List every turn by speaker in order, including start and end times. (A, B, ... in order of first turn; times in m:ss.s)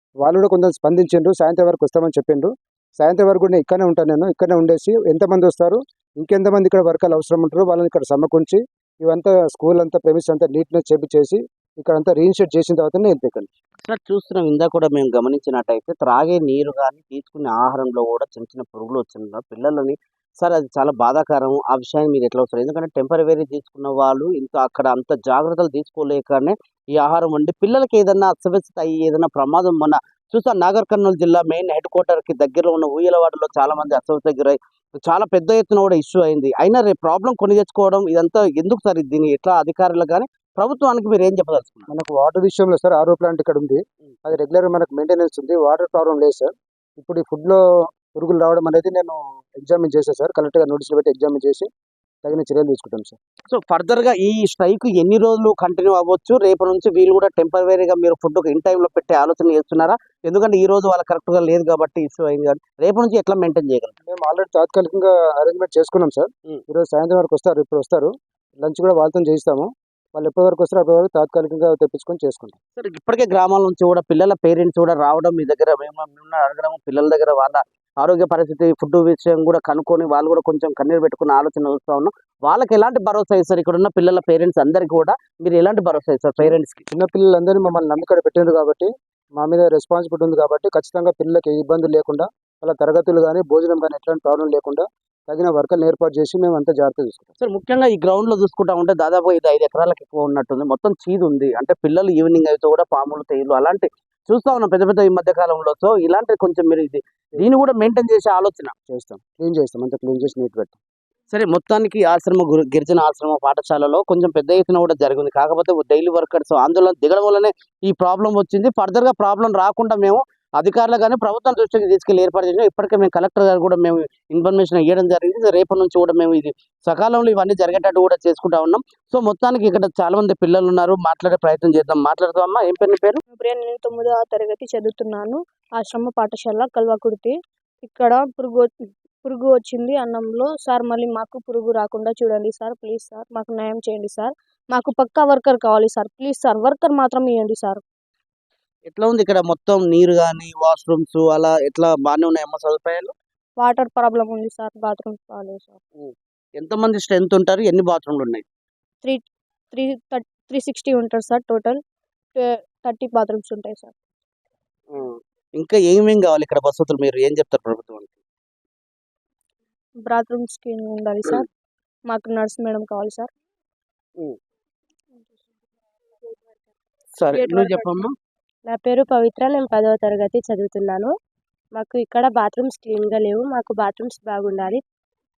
0:00.2-0:13.5 A
0:13.8-0:41.9 B
0:41.9-0:47.6 A
0:48.1-0:51.7 A
0:52.2-0:53.2 A
0:53.5-1:04.0 B
1:04.0-1:08.1 A
1:08.6-1:12.6 A
1:12.8-1:26.8 B
1:26.4-1:37.3 A
1:37.4-1:48.7 B
1:48.9-1:50.8 A
1:51.3-2:13.2 B
2:13.3-2:27.8 C
2:28.9-2:33.1 B
2:33.6-2:35.8 C
2:36.0-2:38.4 B
2:39.0-2:41.8 C
2:42.4-2:43.9 C
2:44.9-2:48.2 B
2:50.0-2:51.5 C
2:52.1-2:53.3 C
2:57.2-2:58.1 B
2:57.3-2:58.0 C
2:58.7-3:01.1 D
3:01.7-3:04.8 D